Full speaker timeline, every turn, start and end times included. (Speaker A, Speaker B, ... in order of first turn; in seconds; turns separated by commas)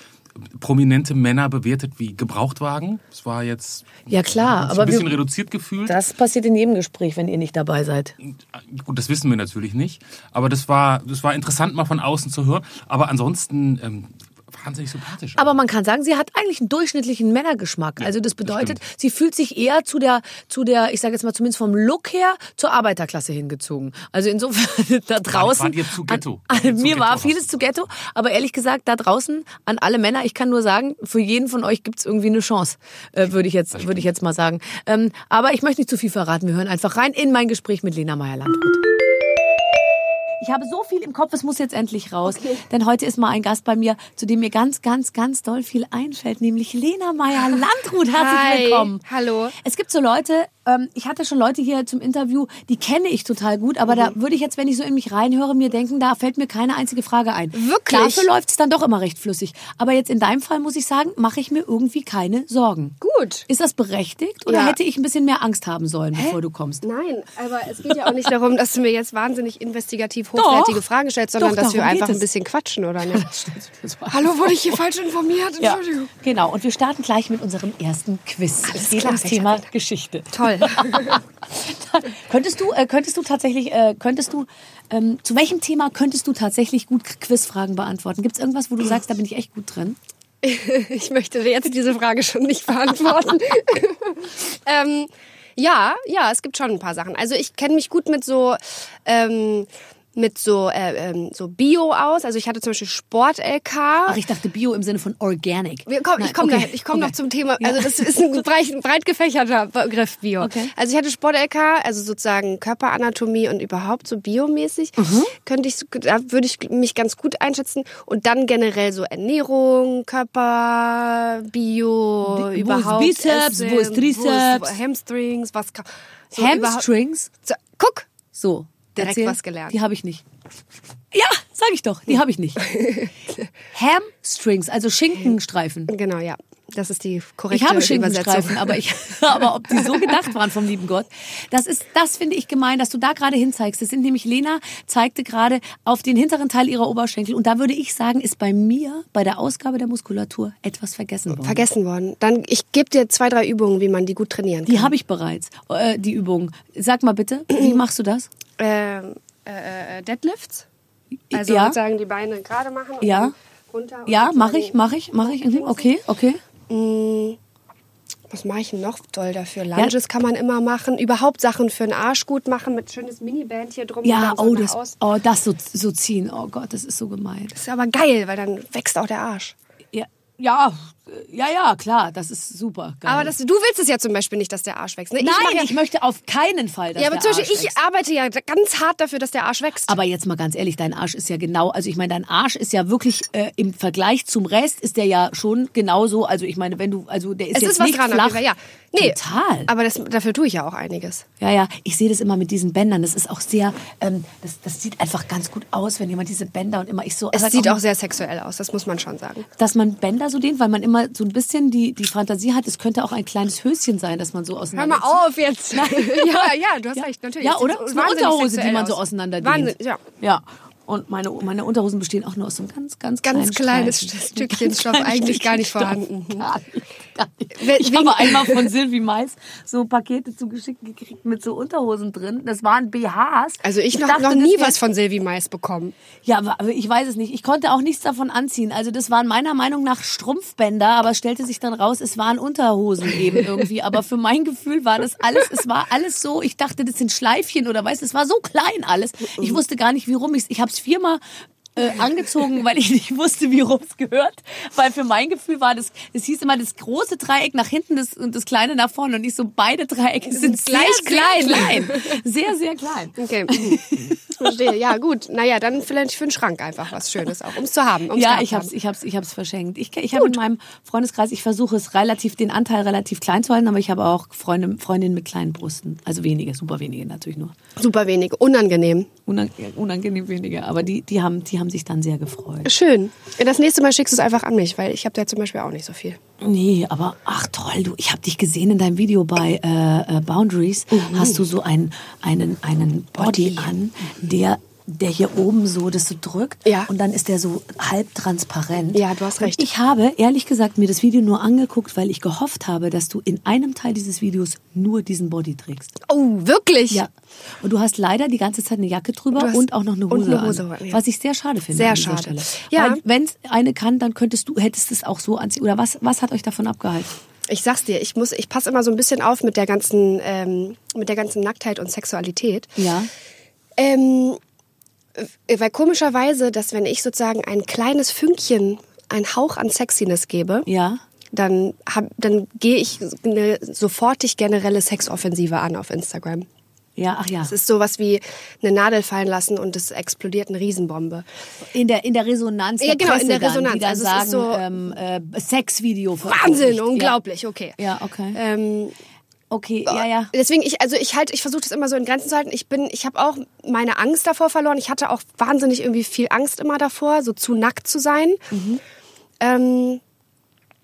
Speaker A: 0.4-6.0, Speaker B: 4.1-5.2, Speaker B: 5.8-8.1, Speaker A: 8.2-15.6, Speaker B: 15.4-38.8, Speaker A: 18.0-18.8, Speaker A: 25.3-27.7, Speaker B: 40.4-49.0, Speaker C: 48.1-49.5, Speaker B: 49.6-63.0, Speaker C: 57.5-58.3, Speaker C: 63.0-63.5, Speaker B: 63.5-66.8, Speaker C: 64.5-64.8, Speaker C: 66.1-73.3, Speaker B: 70.3-70.8, Speaker B: 71.4-72.2, Speaker B: 73.1-74.6, Speaker C: 74.1-76.1, Speaker B: 75.6-90.0, Speaker C: 78.7-79.6, Speaker C: 80.3-81.2, Speaker C: 90.4-104.2, Speaker B: 104.0-108.1, Speaker C: 105.9-126.9, Speaker B: 110.4-110.7, Speaker B: 115.0-115.3, Speaker B: 122.2-124.7, Speaker B: 126.3-127.3, Speaker C: 127.4-128.1, Speaker B: 128.3-130.2, Speaker C: 128.9-129.8, Speaker B: 131.1-132.8, Speaker C: 132.6-133.4, Speaker B: 133.7-135.9, Speaker C: 135.9-138.8, Speaker B: 137.5-151.6, Speaker C: 151.4-154.9, Speaker B: 154.7-158.3, Speaker C: 158.6-160.7, Speaker B: 161.3-161.8, Speaker C: 161.3-165.9, Speaker B: 163.0-163.3, Speaker B: 164.1-166.4, Speaker C: 166.7-167.4, Speaker C: 168.3-174.9, Speaker B: 174.0-177.6, Speaker C: 177.5-179.5, Speaker B: 179.9-183.3, Speaker C: 183.1-185.8, Speaker B: 185.2-187.8, Speaker C: 187.0-190.0, Speaker B: 189.9-198.4, Speaker C: 197.5-201.2, Speaker B: 198.9-199.7, Speaker B: 201.4-207.8, Speaker C: 207.3-209.5, Speaker B: 209.6-234.8, Speaker C: 214.7-220.0, Speaker C: 223.2-226.4, Speaker C: 227.5-228.7, Speaker C: 233.6-235.9, Speaker B: 236.2-251.2, Speaker B: 251.7-264.4, Speaker C: 260.3-262.2, Speaker C: 263.2-268.7, Speaker B: 268.1-277.6, Speaker C: 277.8-279.1, Speaker B: 279.2-282.7, Speaker C: 282.6-286.2, Speaker B: 286.4-306.0, Speaker C: 290.9-291.4, Speaker C: 293.2-293.7, Speaker C: 298.9-299.7, Speaker C: 306.0-307.0, Speaker B: 307.6-317.1, Speaker C: 309.3-311.0, Speaker C: 311.7-313.0, Speaker C: 317.5-322.8, Speaker B: 322.8-323.1, Speaker C: 323.8-324.4, Speaker C: 325.2-330.7, Speaker B: 330.6-331.0, Speaker C: 331.3-336.4, Speaker B: 337.0-337.5, Speaker C: 337.5-341.2, Speaker B: 341.7-347.1, Speaker C: 342.8-344.6, Speaker C: 346.2-347.8, Speaker B: 347.8-348.4, Speaker C: 348.3-348.9, Speaker B: 349.5-350.3, Speaker C: 349.9-358.5, Speaker B: 358.5-358.8, Speaker C: 359.4-360.0